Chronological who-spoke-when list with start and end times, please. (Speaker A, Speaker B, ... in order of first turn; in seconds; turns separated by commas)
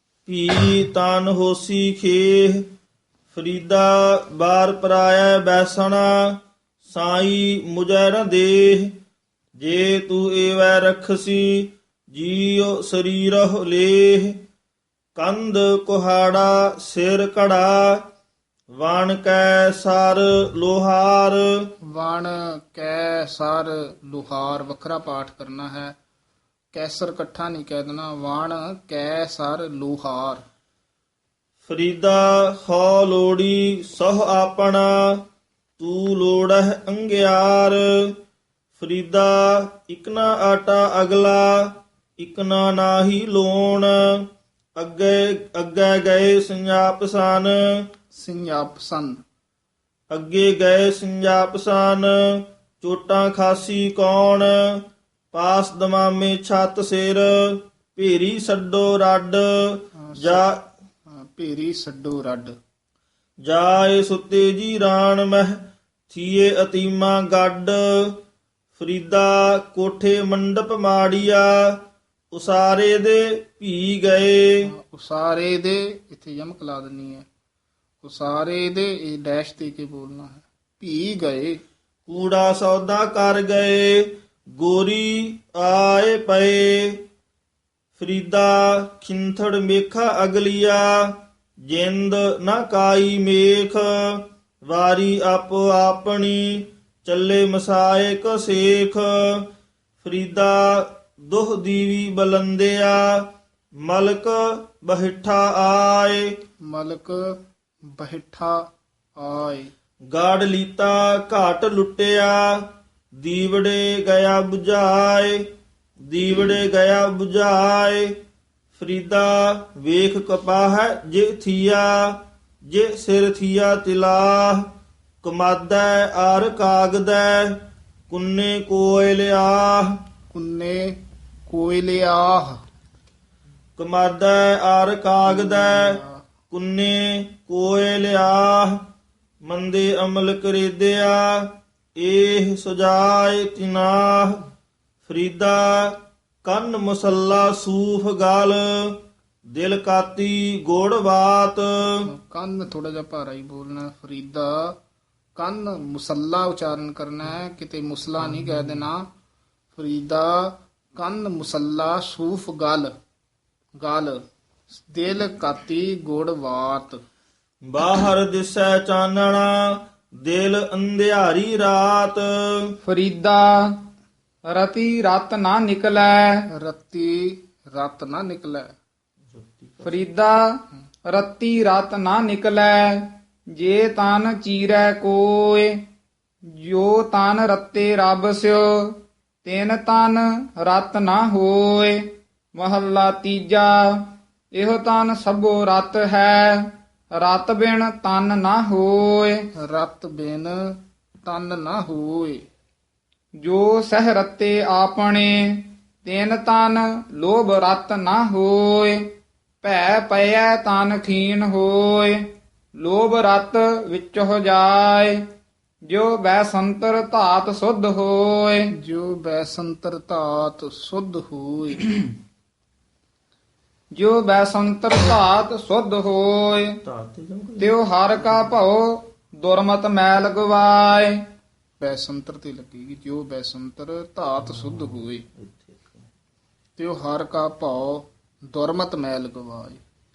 Speaker A: 0.2-2.7, Speaker A: 3.3-9.0, Speaker A: 9.6-14.4, Speaker A: 15.2-18.0, Speaker A: 18.7-21.5, Speaker B: 21.9-25.9, Speaker B: 26.7-30.4, Speaker A: 31.6-35.2, Speaker A: 35.8-38.1, Speaker A: 38.8-44.2, Speaker A: 44.8-47.7, Speaker B: 48.1-49.2, Speaker A: 50.1-54.8, Speaker A: 55.3-60.6, Speaker B: 60.0-60.5, Speaker B: 61.1-62.5, Speaker A: 63.4-68.2, Speaker A: 68.8-71.8, Speaker A: 72.3-74.7, Speaker B: 74.7-77.2, Speaker B: 78.0-81.6, Speaker A: 82.1-87.0, Speaker A: 88.0-91.1, Speaker A: 91.7-99.5, Speaker A: 100.0-103.3, Speaker A: 103.8-106.3, Speaker B: 106.7-107.3, Speaker B: 107.9-108.6, Speaker B: 109.2-109.7, Speaker A: 110.1-112.6, Speaker A: 113.2-115.4, Speaker A: 116.1-118.2, Speaker A: 118.7-124.7, Speaker A: 125.2-130.0, Speaker B: 130.3-132.6, Speaker A: 133.8-136.0, Speaker B: 135.2-136.2, Speaker A: 136.5-138.8, Speaker A: 139.4-144.4, Speaker A: 145.0-149.0, Speaker A: 149.6-152.1, Speaker B: 152.1-154.8, Speaker B: 155.4-159.1, Speaker B: 159.7-162.9, Speaker B: 163.8-167.0, Speaker A: 167.7-172.7, Speaker C: 172.8-173.7, Speaker C: 174.5-176.5, Speaker B: 176.5-178.7, Speaker A: 179.4-179.9, Speaker C: 179.8-180.4, Speaker C: 181.1-185.8, Speaker C: 186.6-199.4, Speaker B: 199.6-202.4, Speaker C: 203.4-209.1, Speaker C: 209.6-212.2, Speaker C: 212.8-215.2, Speaker C: 215.9-218.7, Speaker B: 218.8-222.1, Speaker C: 223.9-226.8, Speaker A: 226.8-227.7, Speaker C: 227.6-231.2, Speaker B: 231.8-235.2, Speaker A: 235.4-236.0, Speaker B: 236.8-239.8